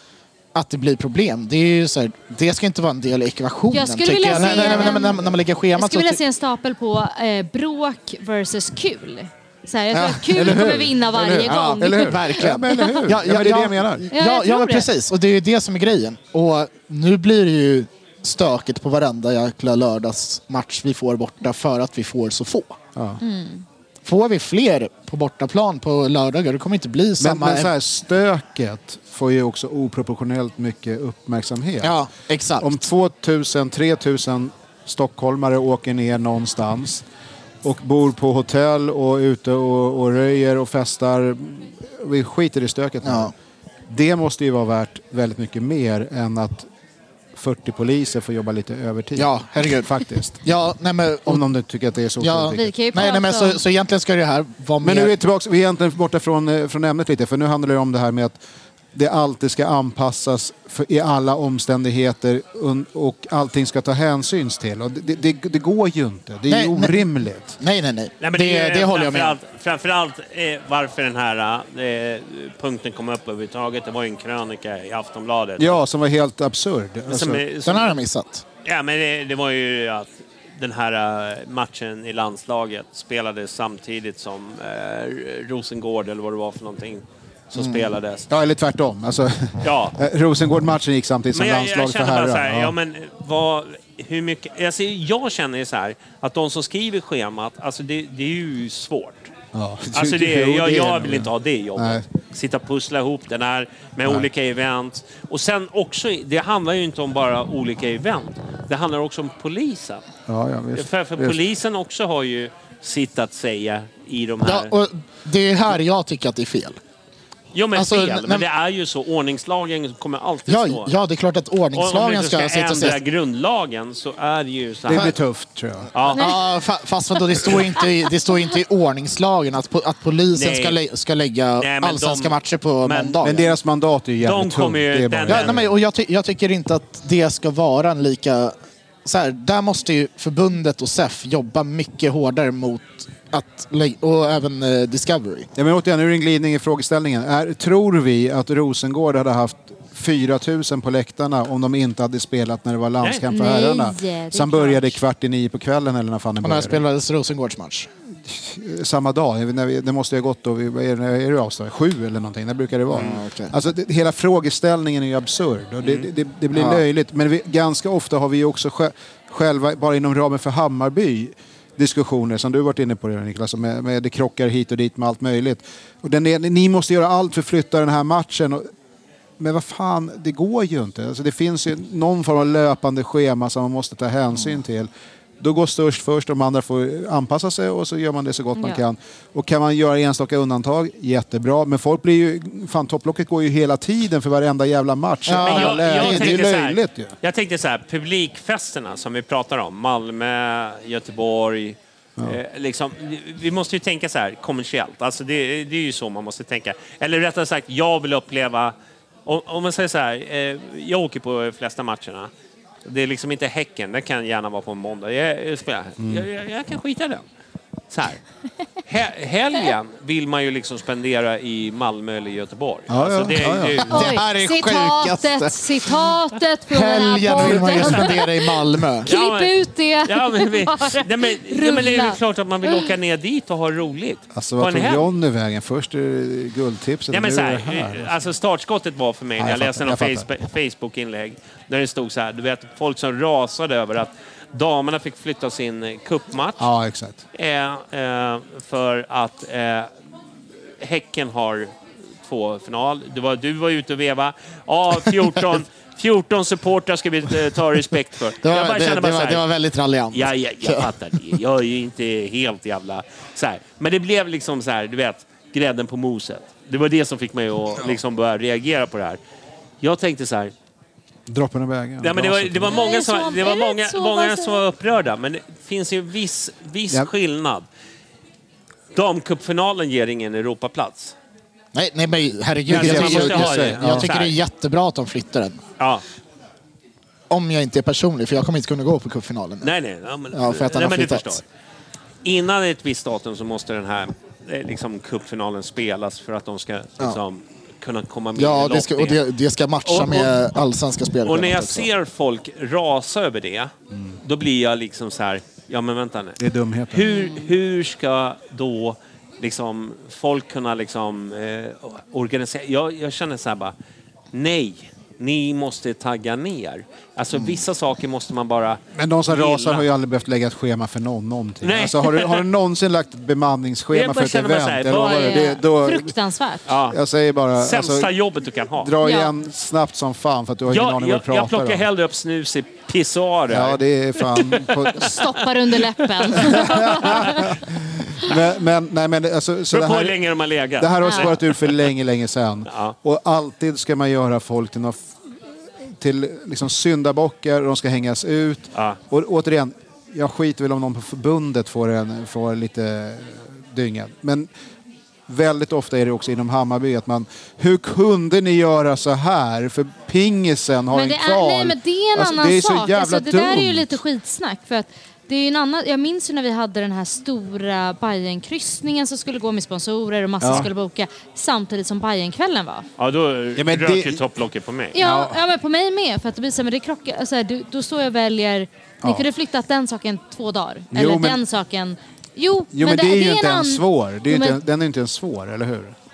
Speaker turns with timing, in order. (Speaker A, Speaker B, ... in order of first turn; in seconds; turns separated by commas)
Speaker A: 0.5-6.2, Speaker B: 3.7-5.2, Speaker C: 4.4-4.8, Speaker B: 5.8-13.0, Speaker C: 9.9-14.1, Speaker A: 10.0-10.6, Speaker A: 11.3-22.8, Speaker B: 14.1-14.9, Speaker C: 22.9-23.2, Speaker B: 23.2-23.6, Speaker A: 24.0-27.7, Speaker C: 27.2-31.9, Speaker A: 31.8-32.9, Speaker C: 32.6-37.0, Speaker C: 37.6-43.3, Speaker A: 43.0-43.3, Speaker C: 43.9-46.7, Speaker C: 47.3-50.4, Speaker A: 49.1-51.4, Speaker C: 51.3-53.1, Speaker A: 52.2-55.1, Speaker B: 52.5-53.6, Speaker C: 54.8-58.4, Speaker C: 58.9-67.5, Speaker A: 66.5-67.1, Speaker A: 67.6-69.4, Speaker D: 68.2-75.8, Speaker C: 75.6-77.4, Speaker D: 77.1-78.0, Speaker A: 77.6-78.4, Speaker D: 78.6-88.3, Speaker A: 87.5-87.9, Speaker C: 88.3-92.7, Speaker D: 89.6-90.0, Speaker D: 91.3-99.3, Speaker C: 99.5-102.0, Speaker D: 99.9-110.0, Speaker C: 110.3-111.4, Speaker D: 110.7-114.7, Speaker A: 114.4-116.8, Speaker D: 117.5-121.0, Speaker A: 117.7-118.5, Speaker A: 120.5-123.0, Speaker D: 121.7-125.1, Speaker C: 124.9-125.9, Speaker A: 124.9-125.1, Speaker D: 125.9-126.3, Speaker A: 126.1-133.5, Speaker D: 130.3-130.8, Speaker D: 131.6-133.5, Speaker C: 133.2-135.7, Speaker D: 134.2-135.5, Speaker A: 135.3-145.5, Speaker C: 145.6-156.8, Speaker B: 153.3-155.0, Speaker A: 156.4-157.9, Speaker C: 158.2-178.7, Speaker A: 162.9-163.5, Speaker A: 166.5-166.8, Speaker C: 179.4-184.9, Speaker C: 185.4-197.1, Speaker B: 188.6-188.8, Speaker A: 195.2-196.4, Speaker D: 195.4-208.7, Speaker D: 209.2-212.3, Speaker D: 212.8-217.2, Speaker D: 217.9-218.2, Speaker D: 218.8-224.1, Speaker C: 222.9-224.1, Speaker A: 223.8-225.9, Speaker B: 223.9-232.8, Speaker A: 226.7-229.1, Speaker D: 229.0-229.5, Speaker D: 230.0-235.1, Speaker C: 234.3-238.2, Speaker D: 237.1-246.7, Speaker C: 239.4-240.3, Speaker C: 246.6-247.2, Speaker D: 247.3-249.9, Speaker D: 250.8-251.7, Speaker D: 252.2-259.4, Speaker A: 258.4-260.9, Speaker D: 260.1-269.2, Speaker D: 269.8-270.5, Speaker C: 271.3-272.8, Speaker D: 272.0-277.6, Speaker B: 272.7-274.6, Speaker D: 278.9-281.1, Speaker A: 281.7-285.6, Speaker C: 282.7-284.1, Speaker D: 282.7-284.4, Speaker D: 285.8-286.0, Speaker A: 287.3-289.7, Speaker D: 289.6-291.4, Speaker A: 290.3-291.4, Speaker D: 292.2-299.2, Speaker A: 298.3-301.9, Speaker D: 299.8-300.3, Speaker D: 301.2-303.7, Speaker D: 304.2-306.4, Speaker C: 306.4-307.1, Speaker D: 306.9-313.7, Speaker D: 314.3-319.9, Speaker C: 318.9-326.1, Speaker D: 321.6-322.4, Speaker D: 323.9-325.6, Speaker B: 325.0-326.6, Speaker D: 326.7-327.0, Speaker C: 326.9-328.1, Speaker D: 327.5-328.9, Speaker C: 328.8-331.9, Speaker B: 329.0-329.3, Speaker D: 330.7-335.1, Speaker C: 333.5-335.1, Speaker B: 334.9-337.5, Speaker D: 336.0-337.4, Speaker C: 336.3-340.2, Speaker D: 339.7-341.9, Speaker C: 340.8-345.1, Speaker B: 341.0-341.3, Speaker C: 346.0-354.5, Speaker C: 355.3-364.0, Speaker B: 360.9-372.9, Speaker C: 370.4-370.7, Speaker D: 373.0-374.9, Speaker C: 373.6-374.2, Speaker B: 374.9-384.6, Speaker C: 374.9-375.4, Speaker C: 380.9-381.4, Speaker C: 382.7-385.9